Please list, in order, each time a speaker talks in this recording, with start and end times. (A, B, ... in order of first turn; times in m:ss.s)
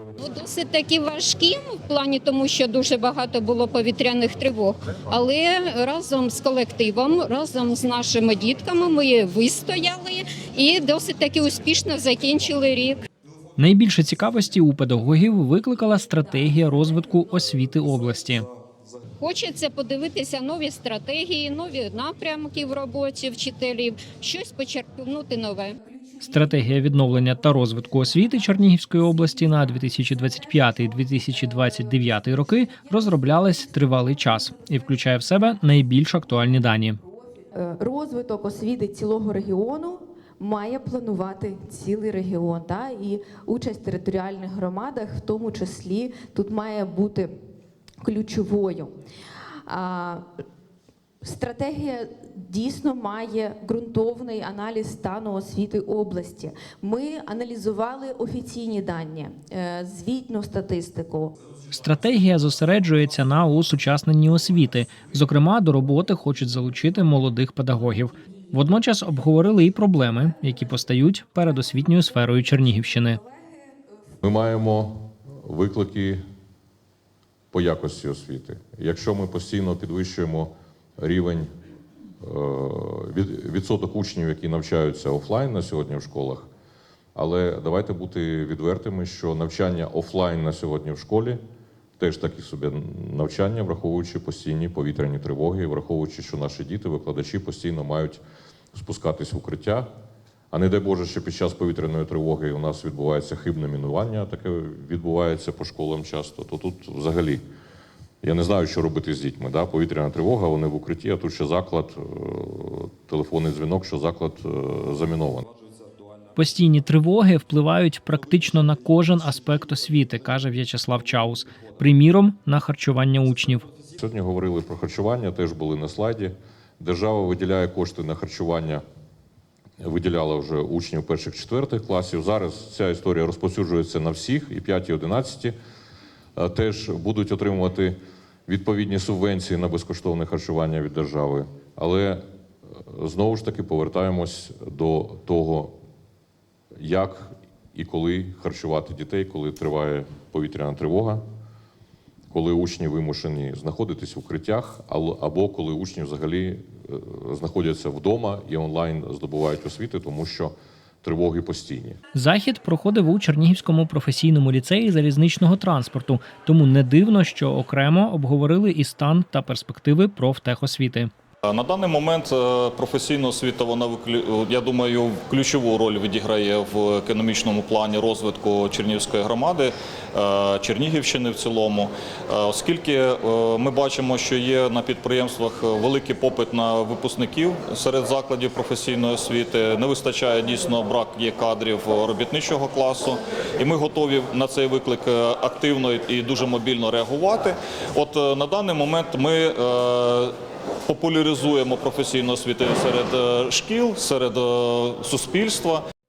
0:00.2-0:13.0 A
0:13.6-0:18.5 B
0:19.2-0:25.8 A
0:25.8-0:26.7 C
0:26.2-0:37.0 B
0:37.5-0:47.3 C
0:48.0-0:48.9 C
0:49.6-0:50.3 C
0:51.2-1:01.3 C
1:01.7-1:13.2 B
1:14.2-1:16.2 D
1:17.5-1:21.5 D
1:22.2-1:26.5 D
1:27.1-1:31.4 D
1:32.0-1:38.2 D
1:38.7-1:39.9 D
1:40.5-1:47.4 D
1:48.2-1:55.5 D
1:56.4-2:03.7 B
2:04.0-2:08.8 D
2:09.8-2:15.5 D
2:16.4-2:22.2 D
2:22.8-2:25.7 D
2:26.8-2:31.2 D
2:32.3-2:42.0 D
2:42.1-2:51.1 B
2:51.5-3:25.8 E